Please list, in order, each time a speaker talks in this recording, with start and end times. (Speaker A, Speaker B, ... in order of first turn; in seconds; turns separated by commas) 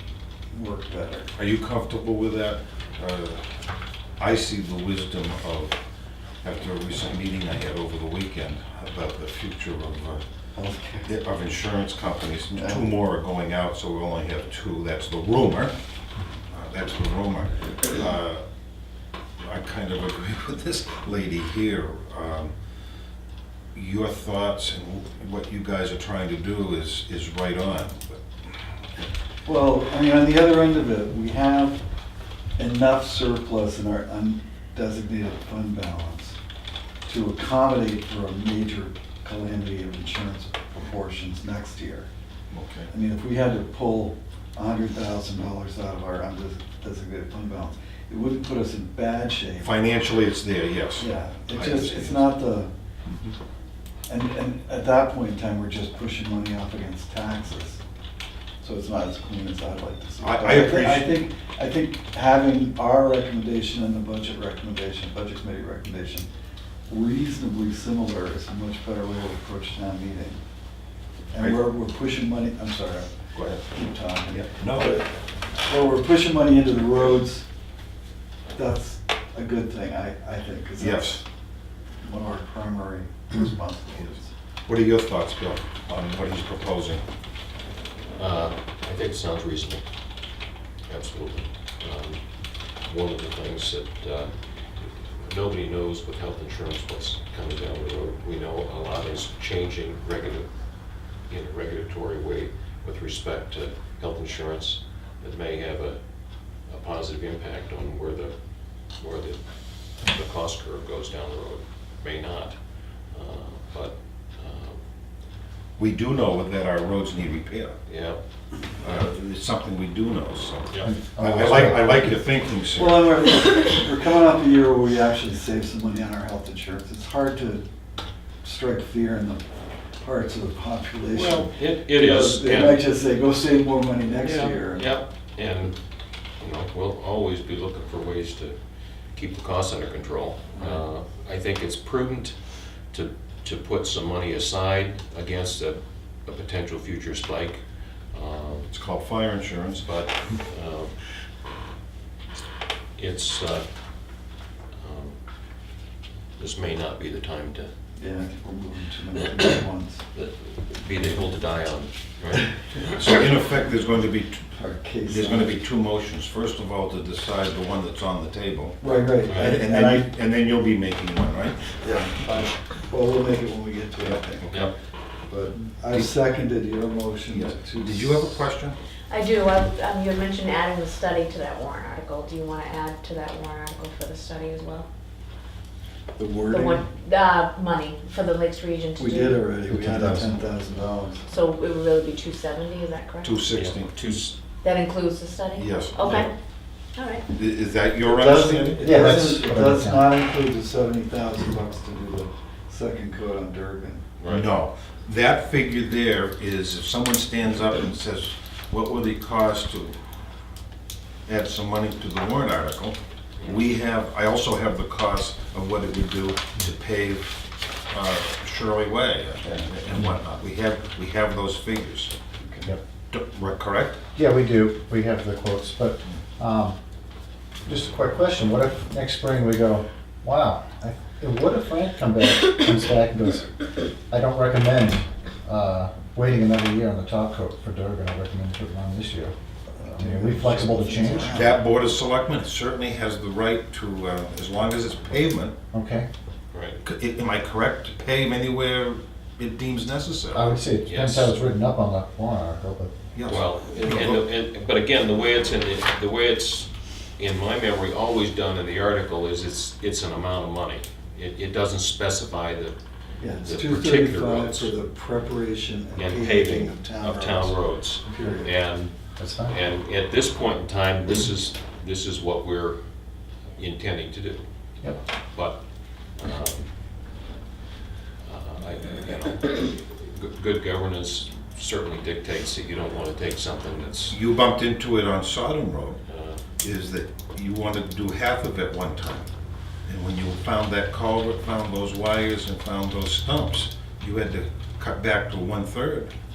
Speaker A: 0.5-1.3, Speaker B: 1.3-3.4, Speaker B: 4.2-5.8, Speaker B: 6.4-10.2, Speaker A: 10.5-11.1, Speaker B: 11.0-15.7, Speaker A: 12.5-12.8, Speaker B: 16.5-18.4, Speaker B: 19.4-22.5, Speaker B: 23.7-28.2, Speaker A: 29.4-31.8, Speaker A: 32.6-36.4, Speaker A: 37.0-42.1, Speaker B: 42.5-42.9, Speaker A: 42.9-49.8, Speaker B: 49.6-52.3, Speaker A: 51.0-52.7, Speaker A: 54.1-57.8, Speaker A: 58.6-66.3, Speaker B: 60.2-61.2, Speaker A: 66.9-70.4, Speaker A: 71.3-73.1, Speaker B: 73.3-75.0, Speaker A: 73.7-75.1, Speaker A: 75.6-77.5, Speaker A: 78.5-81.2, Speaker B: 80.8-81.2, Speaker A: 82.0-84.3, Speaker B: 84.7-87.0, Speaker C: 88.2-89.8, Speaker C: 90.9-100.5, Speaker C: 101.3-106.0, Speaker C: 106.7-108.3, Speaker C: 108.9-109.4, Speaker C: 109.9-114.8, Speaker B: 115.8-117.7, Speaker C: 117.9-118.2, Speaker B: 118.8-123.2, Speaker D: 120.8-122.1, Speaker A: 122.8-127.6, Speaker A: 128.4-129.4, Speaker A: 130.0-134.9, Speaker C: 131.1-132.8, Speaker C: 134.2-135.8, Speaker C: 136.4-138.6, Speaker C: 139.1-148.7, Speaker B: 148.7-149.9, Speaker C: 149.8-150.9, Speaker C: 153.0-153.6, Speaker C: 154.8-155.2, Speaker C: 156.4-157.7, Speaker A: 158.0-160.0, Speaker C: 160.1-163.0, Speaker B: 162.9-164.4, Speaker A: 164.5-165.6, Speaker B: 165.1-171.7, Speaker A: 168.8-170.1, Speaker A: 171.8-174.5, Speaker B: 174.0-174.7, Speaker A: 175.2-178.4, Speaker B: 177.3-178.8, Speaker E: 179.1-184.9, Speaker A: 186.2-186.8, Speaker E: 186.5-189.4, Speaker A: 189.0-191.2, Speaker D: 189.7-190.3, Speaker E: 191.3-193.4, Speaker B: 193.2-194.3, Speaker C: 193.5-194.3, Speaker E: 194.6-196.3, Speaker B: 195.5-196.3, Speaker E: 196.9-197.2, Speaker B: 197.3-199.0, Speaker A: 198.0-204.0, Speaker D: 198.8-200.1, Speaker C: 204.2-204.5, Speaker B: 204.3-210.0, Speaker B: 211.2-222.1, Speaker A: 219.4-219.7, Speaker A: 222.4-222.7, Speaker B: 223.1-224.0, Speaker D: 224.1-226.8, Speaker D: 227.7-233.5, Speaker D: 234.1-241.4, Speaker A: 239.7-241.6, Speaker B: 241.3-245.6, Speaker D: 245.7-246.1, Speaker C: 246.5-246.8, Speaker B: 246.8-250.4, Speaker D: 250.3-253.0, Speaker C: 250.8-251.3, Speaker B: 253.1-254.2, Speaker C: 253.2-262.8, Speaker A: 263.2-268.5, Speaker C: 263.4-264.7, Speaker C: 265.9-272.8, Speaker D: 269.2-269.6, Speaker C: 273.6-274.4, Speaker C: 275.3-275.6, Speaker C: 276.1-276.7, Speaker C: 278.2-284.2, Speaker B: 284.1-286.0, Speaker C: 286.1-286.4, Speaker B: 286.6-289.3, Speaker B: 289.9-296.1